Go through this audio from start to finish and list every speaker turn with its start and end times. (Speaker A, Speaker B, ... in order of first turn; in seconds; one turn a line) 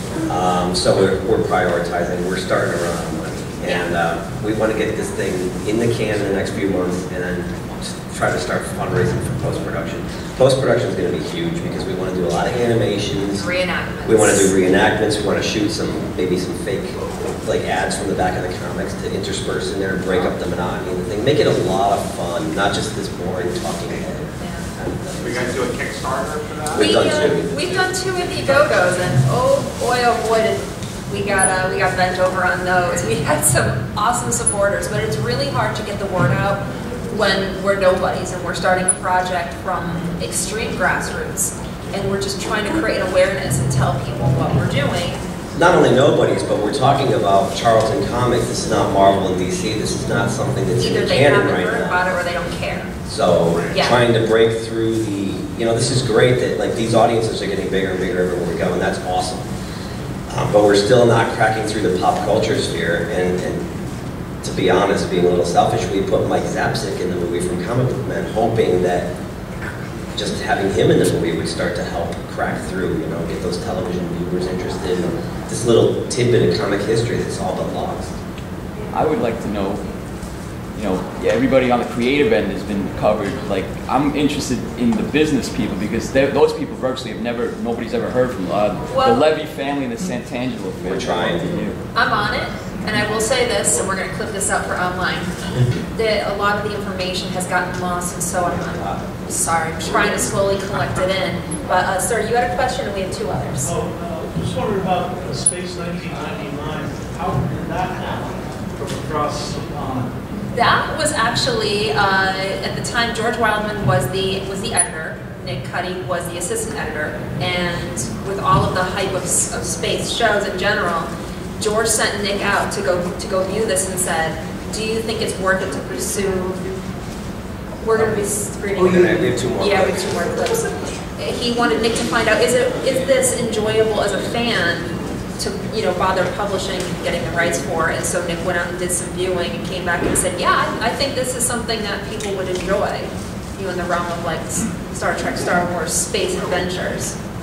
Speaker A: 0.2-13.5
Speaker B: 3.6-3.9
Speaker B: 13.3-14.5
Speaker A: 14.1-25.6
Speaker B: 24.4-24.7
Speaker C: 25.2-29.1
Speaker A: 26.7-27.6
Speaker B: 26.7-45.2
Speaker A: 45.5-52.0
Speaker B: 50.8-52.9
Speaker A: 53.1-59.5
Speaker B: 53.7-54.0
Speaker A: 60.3-63.6
Speaker A: 64.4-69.1
Speaker A: 70.2-78.2
Speaker D: 78.9-79.8
Speaker D: 80.8-91.8
Speaker B: 88.9-89.3
Speaker A: 90.8-91.5
Speaker B: 92.0-95.3
Speaker B: 96.0-103.7
Speaker A: 98.4-99.1
Speaker A: 99.8-100.3
Speaker E: 103.6-110.2
Speaker B: 110.5-126.6
Speaker B: 127.8-147.2
Speaker A: 128.8-130.6